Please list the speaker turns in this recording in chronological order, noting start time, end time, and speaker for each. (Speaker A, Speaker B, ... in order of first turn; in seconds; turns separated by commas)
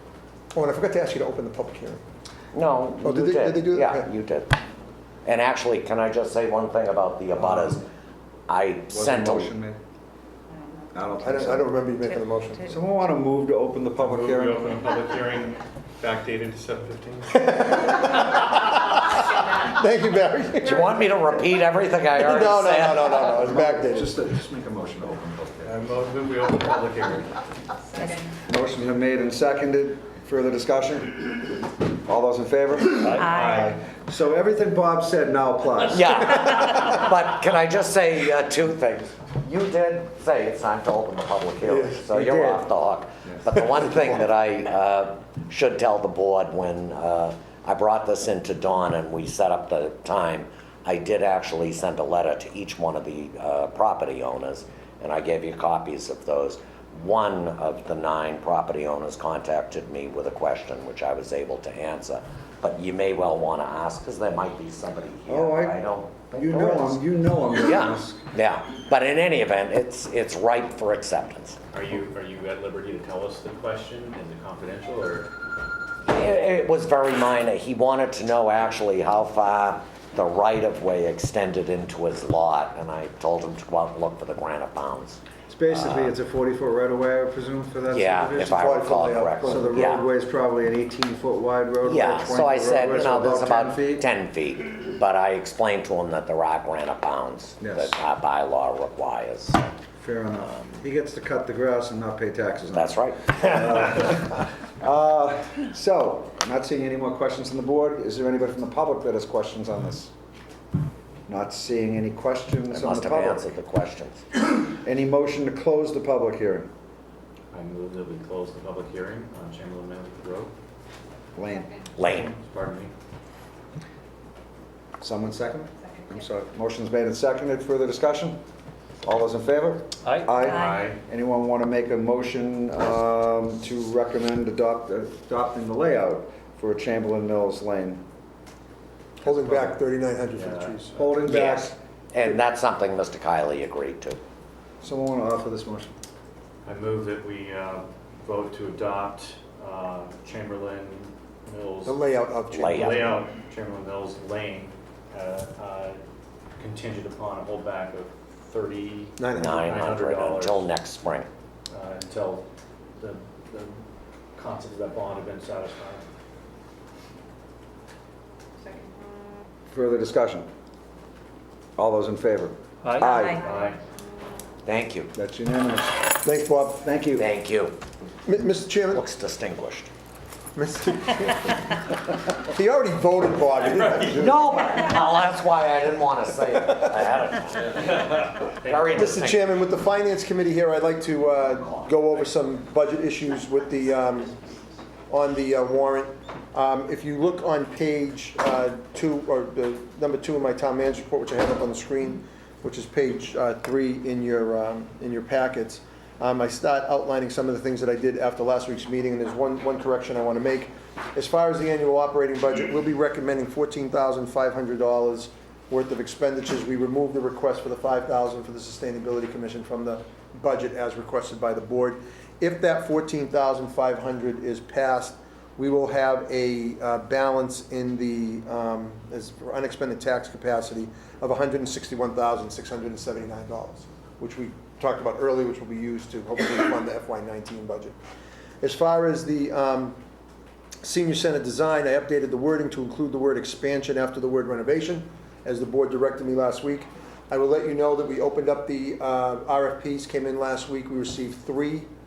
Speaker A: 0.5-2.0, Speaker B: 2.5-4.5, Speaker A: 3.0-4.1, Speaker B: 5.2-7.8, Speaker C: 7.3-7.8, Speaker B: 8.5-9.5, Speaker C: 8.9-9.8, Speaker C: 10.9-11.7, Speaker A: 11.2-12.7, Speaker C: 12.6-14.7, Speaker D: 14.0-17.4, Speaker A: 17.3-21.0, Speaker B: 20.6-23.3, Speaker A: 22.2-24.1, Speaker C: 23.3-25.8, Speaker D: 25.6-27.3, Speaker C: 28.5-36.2, Speaker D: 33.0-33.5, Speaker B: 35.9-67.0, Speaker A: 41.7-42.0, Speaker C: 42.1-42.7, Speaker C: 65.3-68.2, Speaker B: 67.5-71.6, Speaker D: 71.7-75.3, Speaker B: 76.1-86.1, Speaker C: 85.5-88.6, Speaker B: 87.9-90.0, Speaker A: 88.5-89.8, Speaker C: 89.4-94.0, Speaker B: 91.8-99.6, Speaker C: 97.6-97.9, Speaker C: 100.0-110.1, Speaker B: 102.7-104.1, Speaker C: 111.3-113.5, Speaker B: 112.7-114.2, Speaker C: 114.7-116.7, Speaker D: 117.5-120.5, Speaker C: 121.3-121.8, Speaker B: 122.0-122.3, Speaker D: 122.0-122.9, Speaker C: 125.0-128.4, Speaker C: 129.0-138.0, Speaker D: 130.0-131.0, Speaker A: 139.2-141.1, Speaker D: 139.3-139.8, Speaker D: 140.3-140.9, Speaker C: 140.9-141.8, Speaker B: 141.2-144.2, Speaker C: 144.8-145.9, Speaker D: 146.6-152.0, Speaker A: 151.8-153.2, Speaker B: 152.5-153.2, Speaker D: 152.7-156.0, Speaker D: 156.6-160.6, Speaker A: 159.2-159.7, Speaker B: 159.3-161.3, Speaker D: 161.7-163.8, Speaker D: 164.3-166.0, Speaker C: 169.7-170.5, Speaker C: 171.8-173.4, Speaker D: 172.8-173.8, Speaker B: 174.6-175.1, Speaker C: 175.1-176.2, Speaker A: 176.2-176.8, Speaker C: 176.8-177.2, Speaker B: 177.2-177.8, Speaker A: 178.2-179.0, Speaker B: 178.9-179.9, Speaker A: 180.6-181.7, Speaker A: 182.3-184.4, Speaker B: 184.1-189.4, Speaker D: 187.9-189.2, Speaker A: 188.9-194.3, Speaker A: 195.1-237.9, Speaker A: 238.6-239.9, Speaker A: 240.8-251.9